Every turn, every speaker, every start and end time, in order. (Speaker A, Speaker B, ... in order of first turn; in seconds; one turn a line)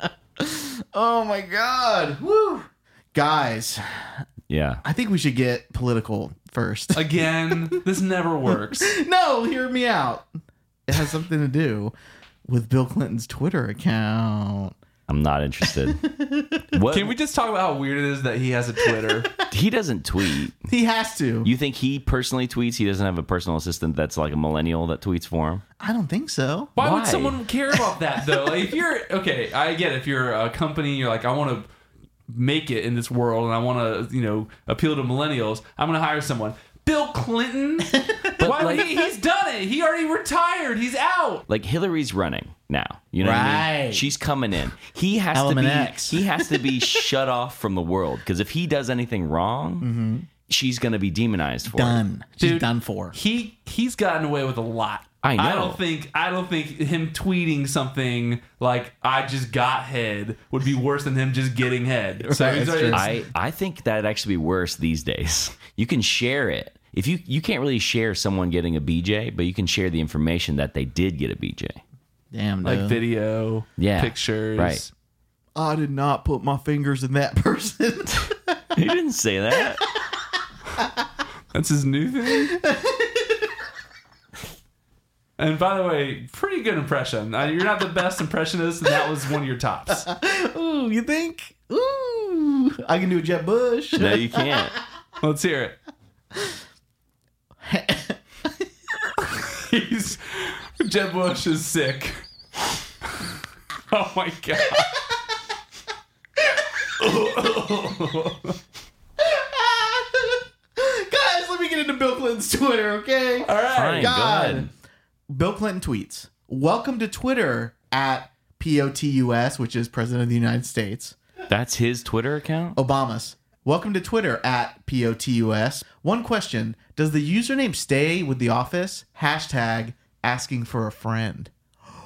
Speaker A: 0.4-4.2
Speaker B: 4.5-4.8
Speaker A: 4.8-7.8
Speaker C: 6.9-8.9
Speaker A: 8.7-10.3
Speaker A: 10.9-11.9
Speaker A: 12.4-14.7
Speaker B: 15.1-16.1
Speaker A: 15.7-16.6
Speaker B: 16.7-17.1
Speaker C: 16.9-19.3
Speaker A: 18.9-19.2
Speaker B: 19.4-20.6
Speaker A: 20.6-21.5
Speaker B: 21.4-25.6
Speaker A: 25.8-26.7
Speaker C: 26.8-31.7
Speaker B: 26.8-27.4
Speaker C: 32.3-41.5
Speaker A: 37.9-39.1
Speaker B: 38.4-38.9
Speaker B: 41.5-49.9
Speaker A: 43.2-44.1
Speaker A: 45.3-47.1
Speaker A: 49.8-50.3
Speaker B: 50.5-52.0
Speaker A: 51.7-53.1
Speaker C: 52.4-63.0
Speaker B: 55.2-55.8
Speaker A: 62.2-63.2
Speaker B: 62.9-71.8
Speaker A: 72.3-73.0
Speaker C: 72.6-74.9
Speaker B: 73.8-74.8
Speaker A: 75.5-78.5
Speaker B: 78.7-79.8
Speaker C: 81.5-82.6
Speaker A: 82.5-83.4
Speaker C: 85.4-90.1
Speaker A: 89.9-94.7
Speaker B: 94.0-94.7
Speaker C: 95.2-95.8
Speaker A: 97.6-98.2
Speaker C: 99.3-102.2
Speaker C: 103.9-104.9
Speaker C: 107.0-108.6
Speaker A: 109.2-114.7
Speaker C: 113.4-114.1
Speaker B: 113.7-114.7
Speaker A: 115.3-121.2
Speaker B: 121.5-122.8
Speaker A: 122.7-131.5